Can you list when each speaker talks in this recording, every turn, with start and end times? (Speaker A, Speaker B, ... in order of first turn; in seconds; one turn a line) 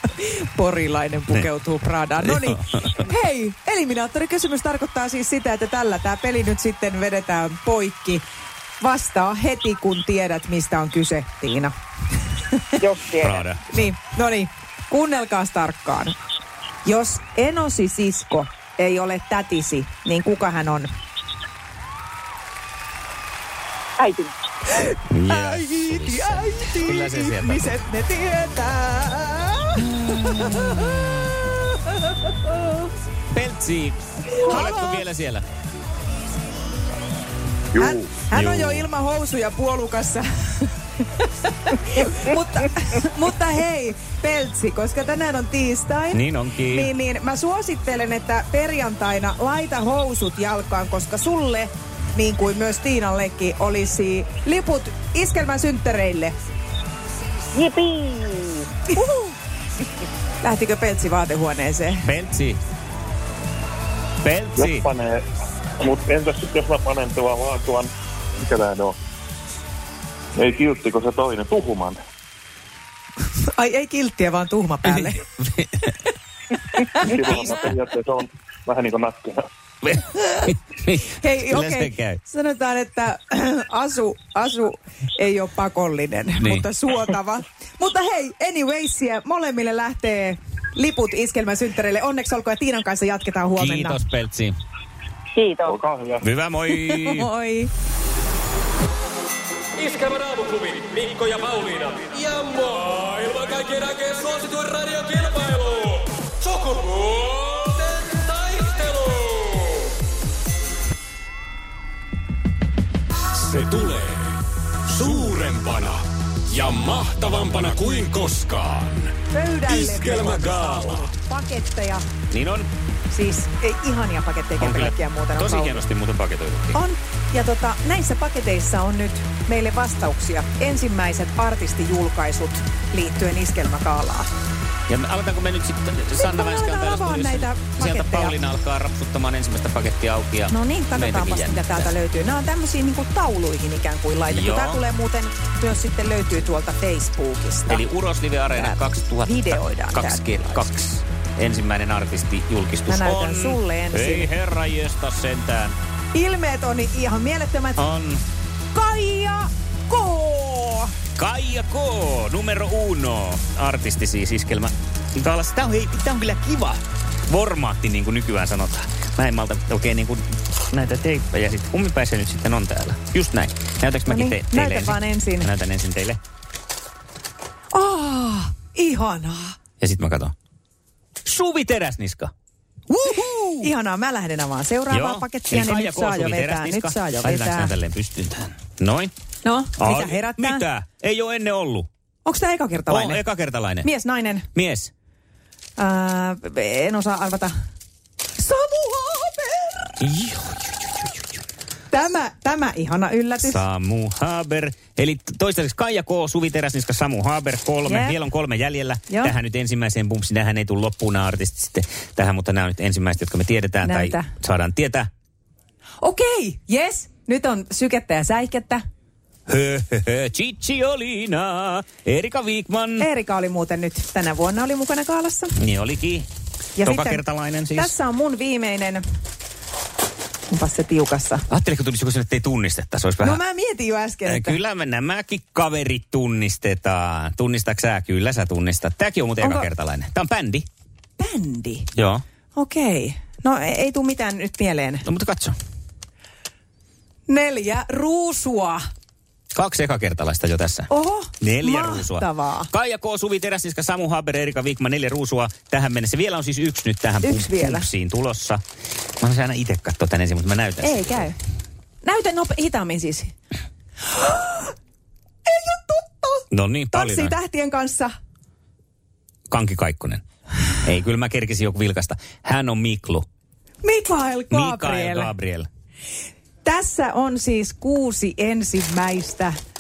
Speaker A: 0.1-8.2
Speaker A: 8.8-11.7
Speaker B: 12.8-13.4
Speaker C: 13.2-13.6
Speaker A: 13.7-16.1
Speaker A: 16.8-20.9
Speaker B: 24.0-24.3
Speaker A: 24.7-31.0
Speaker C: 25.1-27.7
Speaker A: 32.5-32.8
Speaker C: 33.3-35.4
Speaker A: 34.4-35.0
Speaker D: 37.7-38.1
Speaker A: 37.8-46.2
Speaker C: 38.3-38.9
Speaker C: 46.1-46.9
Speaker A: 46.7-56.4
Speaker B: 57.5-59.0
Speaker A: 60.4-62.1
Speaker C: 62.0-62.6
Speaker C: 64.2-64.9
Speaker D: 64.6-65.2
Speaker D: 65.8-69.0
Speaker D: 70.4-72.0
Speaker A: 73.6-75.2
Speaker C: 74.9-75.9
Speaker D: 77.0-79.5
Speaker C: 79.8-82.2
Speaker A: 80.2-80.5
Speaker A: 81.1-94.0
Speaker C: 86.4-86.7
Speaker C: 93.6-94.5
Speaker B: 95.3-95.7
Speaker D: 95.7-96.3
Speaker C: 96.2-97.3
Speaker A: 96.7-97.7
Speaker E: 99.9-105.7
Speaker E: 106.5-107.2
Speaker F: 113.7-114.0
Speaker F: 115.0-115.9
Speaker F: 116.6-118.4
Speaker E: 117.0-118.6
Speaker A: 119.3-122.0
Speaker F: 119.7-121.0
Speaker C: 122.3-122.7
Speaker A: 123.1-125.8
Speaker C: 124.6-126.8
Speaker A: 126.7-134.3
Speaker C: 134.9-141.9
Speaker A: 136.2-138.4
Speaker A: 140.5-147.8
Speaker C: 144.3-144.8
Speaker C: 147.7-155.8
Speaker A: 148.5-150.7
Speaker A: 152.9-154.3
Speaker A: 156.1-157.8
Speaker C: 157.8-158.2
Speaker A: 158.7-160.9
Speaker C: 161.2-176.2
Speaker A: 174.1-175.5
Speaker A: 177.7-179.6
Speaker C: 179.8-180.3
Speaker C: 181.2-182.3
Speaker A: 182.9-187.7
Speaker C: 183.0-183.7
Speaker C: 184.9-189.1
Speaker A: 189.4-190.7
Speaker C: 189.8-191.9
Speaker A: 192.2-193.2
Speaker C: 192.9-193.9
Speaker A: 193.8-194.5
Speaker C: 194.6-194.9
Speaker A: 195.8-197.5
Speaker A: 198.4-199.9
Speaker C: 200.0-201.1
Speaker A: 201.9-203.6
Speaker C: 203.4-215.1
Speaker A: 207.8-208.2
Speaker A: 209.1-209.3
Speaker A: 213.8-214.3
Speaker A: 216.0-218.8
Speaker C: 219.5-223.1
Speaker A: 223.0-225.5
Speaker C: 225.6-226.3
Speaker A: 226.8-227.2
Speaker C: 226.8-227.9
Speaker A: 227.8-229.0
Speaker A: 230.5-231.4
Speaker C: 231.5-233.4
Speaker A: 233.2-234.6
Speaker C: 234.3-240.7
Speaker A: 239.4-239.7
Speaker A: 241.2-241.9
Speaker C: 241.9-242.2
Speaker A: 242.6-245.0
Speaker C: 245.1-245.6
Speaker A: 247.3-248.8
Speaker C: 249.5-250.9
Speaker A: 250.9-252.7
Speaker C: 251.4-258.6
Speaker A: 257.2-257.9
Speaker C: 259.2-261.3
Speaker A: 260.8-261.3
Speaker A: 262.0-263.3
Speaker A: 264.1-264.7
Speaker A: 265.5-268.1
Speaker C: 266.5-267.4
Speaker C: 269.5-270.2
Speaker C: 270.8-273.3
Speaker A: 273.8-275.3
Speaker C: 274.5-275.7
Speaker A: 276.6-279.5